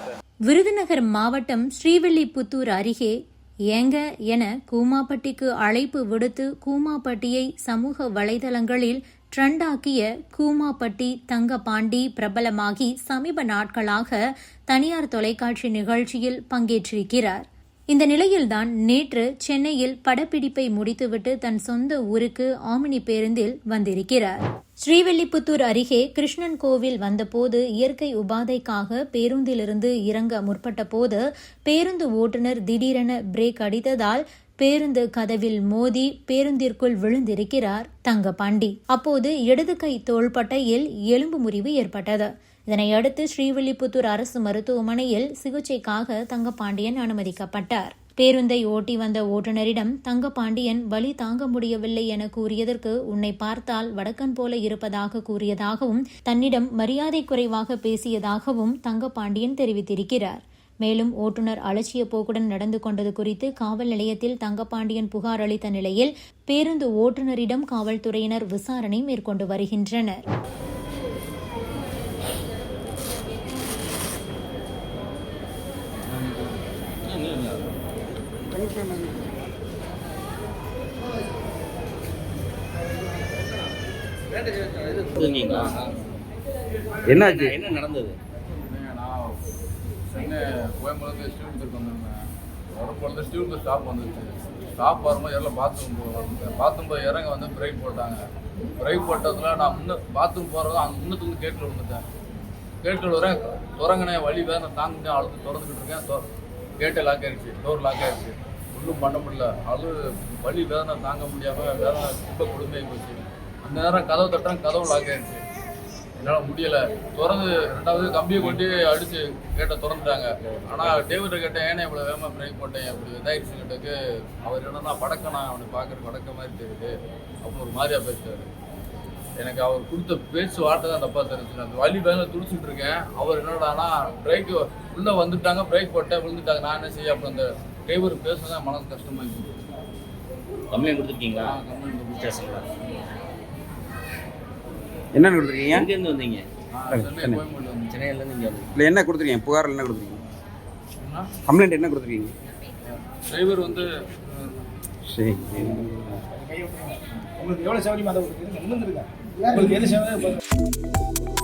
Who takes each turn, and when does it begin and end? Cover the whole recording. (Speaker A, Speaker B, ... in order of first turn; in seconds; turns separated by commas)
Speaker A: 0.5-3.2, Speaker A: 3.7-70.2, Speaker B: 85.0-85.8, Speaker C: 85.5-85.9, Speaker D: 87.1-87.5, Speaker B: 87.1-88.2, Speaker C: 88.7-89.4, Speaker C: 90.1-92.2, Speaker C: 92.7-98.2, Speaker C: 98.8-102.0, Speaker C: 102.8-106.2, Speaker C: 106.8-115.4, Speaker C: 116.2-128.5, Speaker C: 129.4-139.6, Speaker B: 140.7-141.6, Speaker C: 141.4-142.3, Speaker B: 142.2-142.7, Speaker D: 145.1-145.9, Speaker B: 145.7-146.4, Speaker C: 146.7-147.9, Speaker D: 146.9-147.4, Speaker B: 147.9-148.8, Speaker D: 148.7-150.2, Speaker C: 151.0-151.3, Speaker D: 151.5-152.3, Speaker C: 152.8-154.7, Speaker D: 155.1-156.2, Speaker E: 156.4-160.3